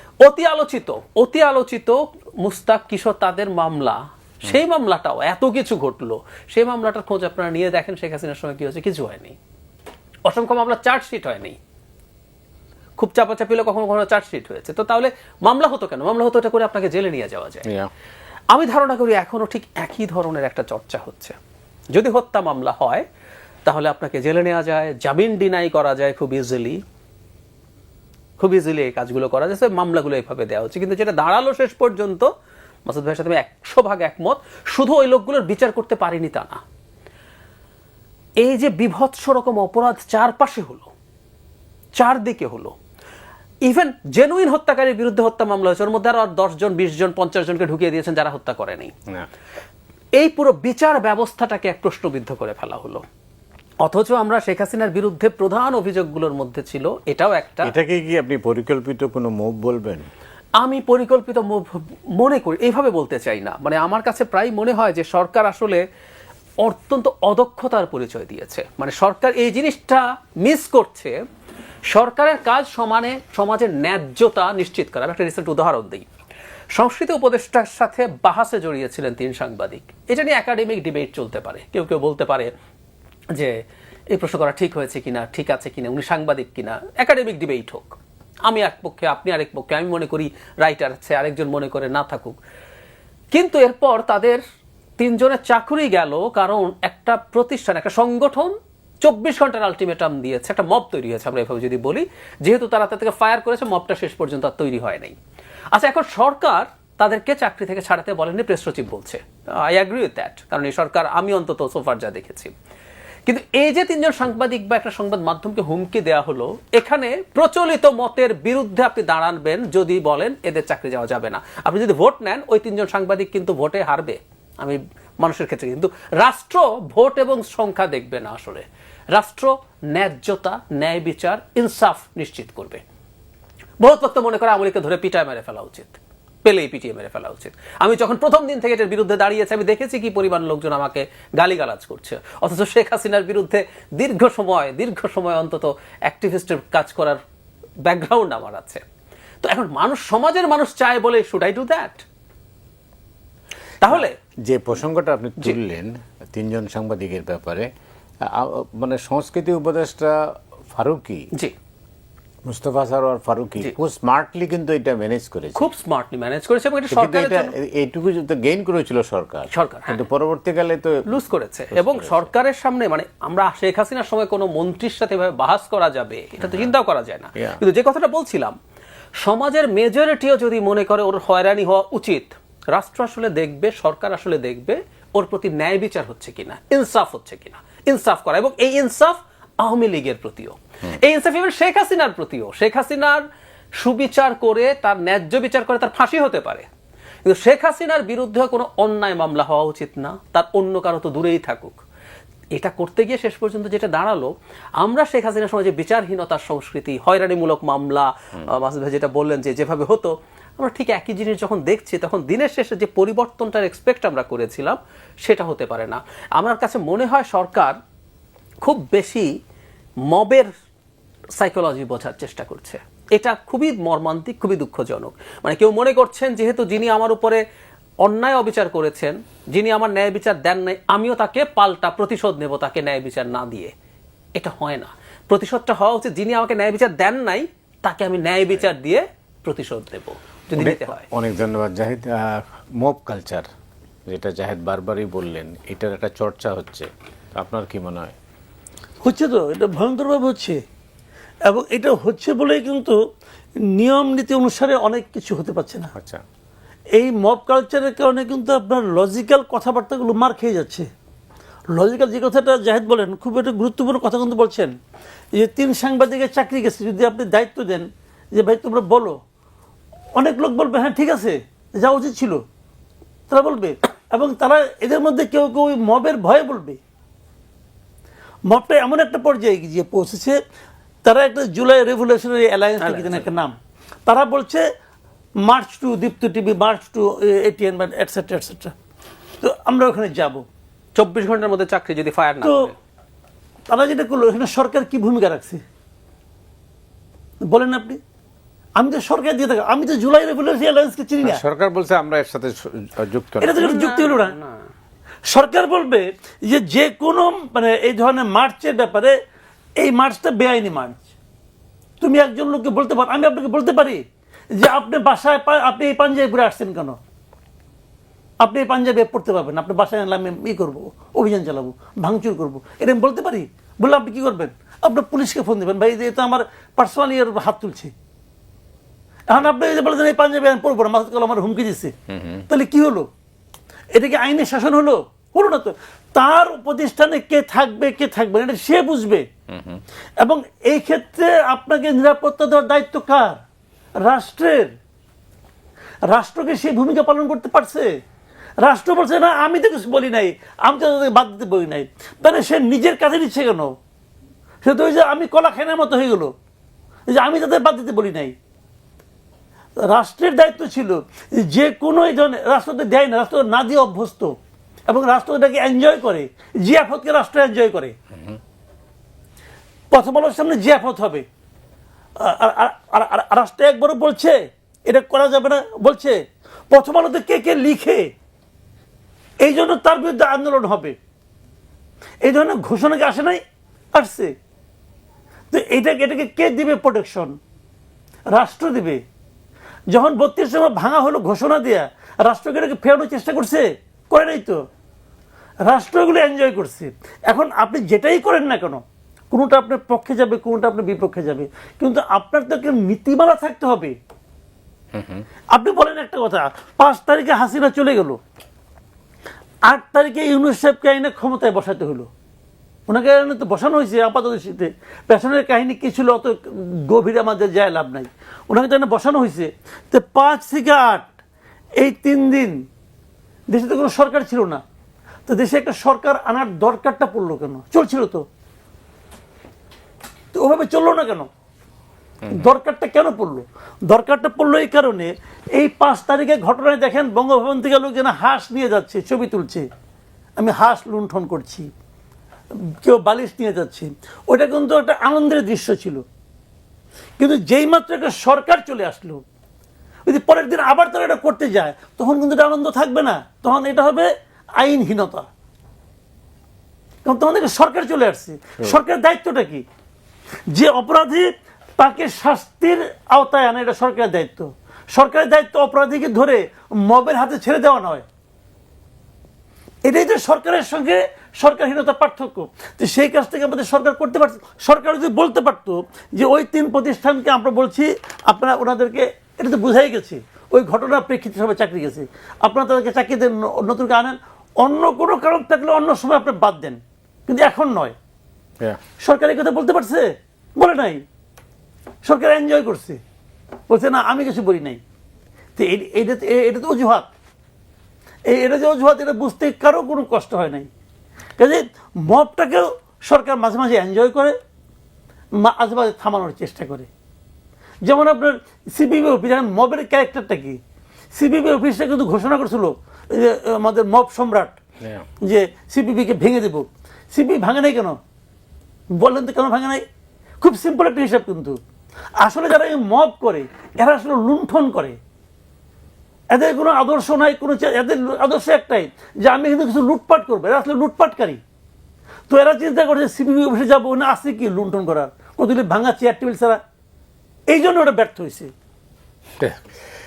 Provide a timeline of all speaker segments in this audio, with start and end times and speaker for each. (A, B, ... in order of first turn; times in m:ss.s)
0:00.2-0:09.4 A
0:10.2-0:11.6 A
0:13.0-0:17.7 A
0:18.5-0:21.3 A
0:21.9-0:23.0 A
0:23.6-0:26.8 A
0:28.4-0:32.3 A
0:32.8-0:36.6 A
0:38.4-0:40.9 A
0:42.0-0:42.8 A
0:43.6-0:48.9 A
0:50.2-0:53.0 A
0:53.8-0:57.7 A
0:57.6-1:00.1 B
1:00.6-1:05.8 A
1:06.6-1:11.2 A
1:11.9-1:16.1 A
1:16.7-1:22.5 A
1:23.3-1:27.9 A
1:28.4-1:32.4 A
1:33.3-1:34.4 A
1:35.0-1:45.2 A
1:45.7-1:52.5 A
1:53.3-2:12.8 A
2:13.8-2:27.2 A
2:27.8-2:28.8 A
2:29.4-2:32.0 A
2:33.8-2:34.2 A
2:33.9-2:37.7 B
2:38.2-2:41.3 B
2:42.4-2:45.7 B
2:45.6-2:47.5 A
2:46.9-2:51.0 B
2:49.5-2:50.0 A
2:51.0-2:58.5 A
2:51.7-2:52.3 B
2:56.4-2:56.7 B
2:59.2-3:13.2 A
3:13.8-3:16.7 A
3:17.2-3:21.8 A
3:22.5-3:37.8 A
3:38.6-3:39.3 A
3:40.1-3:40.5 A
3:41.4-3:47.4 A
3:48.0-3:53.7 A
3:54.4-4:01.0 A
4:00.6-4:03.5 B
4:04.1-4:08.1 B
4:09.0-4:10.6 C
4:11.4-4:13.0 C
4:13.7-4:15.9 C
4:15.9-4:16.2 B
4:16.9-4:20.9 C
4:21.7-4:24.7 C
4:25.3-4:29.2 C
4:30.2-4:32.4 C
4:33.3-4:36.8 C
4:38.5-4:40.4 C
4:41.0-4:43.6 C
4:42.8-4:43.3 A
4:44.1-4:44.6 C
4:45.4-4:48.7 C
4:49.4-4:50.4 C
4:51.0-4:52.7 A
4:52.4-4:52.7 C
4:53.7-4:55.6 C
4:57.4-4:58.0 C
4:58.8-5:01.4 C
5:01.2-5:03.7 B
5:03.4-5:04.3 C
5:03.6-5:04.6 A
5:05.3-5:09.2 C
5:09.8-5:11.0 C
5:12.0-5:17.0 C
5:18.4-5:27.9 C
5:29.3-5:31.9 C
5:32.1-5:32.4 B
5:32.5-5:33.1 C
5:33.9-5:39.2 C
5:39.5-5:39.8 B
5:40.2-5:43.4 C
5:44.0-5:44.7 C
5:46.1-5:47.9 C
5:48.6-5:53.7 C
5:54.6-5:56.3 C
5:57.1-5:58.3 C
5:59.8-6:04.3 C
6:04.9-6:07.9 C
6:09.9-6:11.2 C
6:12.2-6:16.2 C
6:16.7-6:18.1 C
6:19.4-6:21.0 C
6:22.2-6:23.4 C
6:23.9-6:24.3 C
6:25.5-6:27.4 C
6:28.3-6:29.0 C
6:29.9-6:34.6 C
6:35.6-6:43.9 C
6:44.9-6:45.2 B
6:45.5-6:48.2 C
6:49.6-6:52.1 C
6:52.9-7:01.1 C
7:01.8-7:02.6 C
7:03.5-7:04.6 C
7:05.3-7:08.2 C
7:10.3-7:11.3 C
7:12.3-7:19.6 C
7:20.4-7:21.7 C
7:22.5-7:26.0 C
7:27.2-7:29.2 C
7:30.0-7:35.3 C
7:37.0-7:39.6 C
7:40.5-7:48.0 C
7:49.8-8:07.9 C
8:09.0-8:11.0 C
8:12.0-8:13.0 C
8:13.7-8:14.8 C
8:15.6-8:17.1 C
8:18.3-8:20.7 C
8:21.4-8:24.3 C
8:25.4-8:26.9 C
8:27.8-8:30.6 C
8:31.1-8:34.6 C
8:34.8-8:35.1 B
8:35.2-8:38.0 C
8:38.9-8:39.8 C
8:40.4-8:41.6 C
8:42.2-8:45.0 C
8:46.3-8:51.4 C
8:52.3-8:56.6 C
8:57.5-8:58.5 C
8:59.4-8:59.7 B